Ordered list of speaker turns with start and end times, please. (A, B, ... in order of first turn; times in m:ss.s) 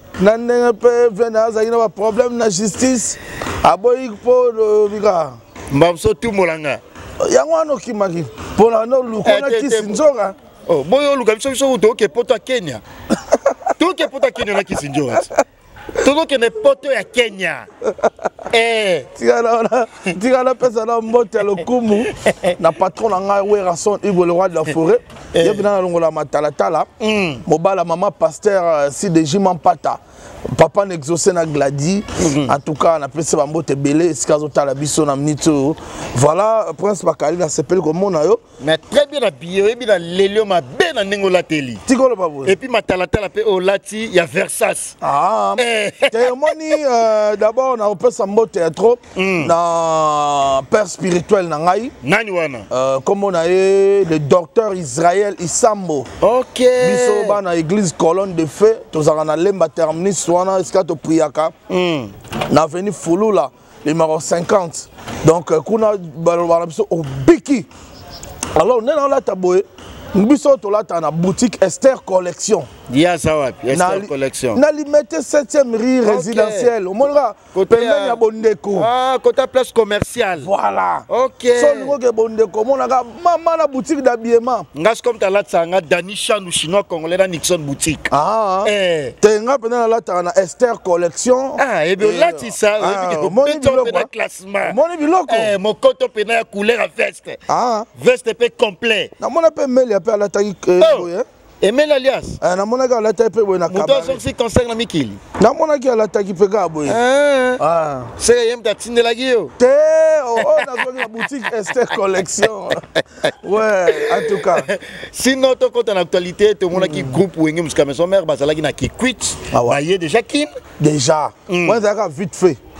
0:00.2-0:05.4 A
0:05.7-0:06.8 B
0:07.2-0:10.3 A
0:09.2-0:10.0 B
0:10.7-0:12.8 B
0:13.3-0:13.7 A
0:13.8-0:15.3 B
0:16.0-0:17.7 B
0:18.0-0:18.3 A
0:18.5-0:19.1 B
0:19.2-0:26.9 A
0:22.1-0:22.6 B
0:25.3-0:25.6 B
0:27.0-0:27.4 B
0:27.4-0:30.0 A
0:30.5-0:38.4 A
0:32.2-0:32.5 B
0:38.6-0:41.8 B
0:41.9-0:42.5 A
0:42.4-0:45.0 B
0:45.0-0:51.9 A
0:45.6-0:46.8 B
0:49.1-0:49.5 B
0:52.0-0:52.7 B
0:52.7-0:56.1 A
0:56.2-0:57.4 B
0:56.8-1:01.5 A
1:01.7-1:02.1 B
1:02.5-1:07.7 A
1:08.5-1:12.7 A
1:12.9-1:14.6 B
1:13.7-1:18.9 A
1:16.0-1:16.7 B
1:17.5-1:18.2 B
1:18.7-1:20.5 B
1:20.4-1:24.7 A
1:21.1-1:22.0 B
1:24.7-1:28.1 B
1:28.1-1:34.1 A
1:28.6-1:29.2 B
1:31.6-1:37.4 B
1:34.6-1:35.5 A
1:37.5-1:37.9 A
1:38.0-1:39.1 B
1:39.2-1:41.2 A
1:40.8-1:41.1 B
1:41.6-1:42.4 B
1:42.4-1:44.2 A
1:43.7-1:45.2 B
1:45.4-1:47.0 A
1:46.8-1:47.6 B
1:47.6-1:48.1 A
1:48.2-1:49.5 B
1:49.6-1:54.7 A
1:50.4-1:51.1 B
1:52.8-1:53.3 B
1:53.9-2:00.6 B
1:56.7-1:57.2 A
1:59.5-1:59.8 A
2:00.8-2:02.6 A
2:01.5-2:01.8 B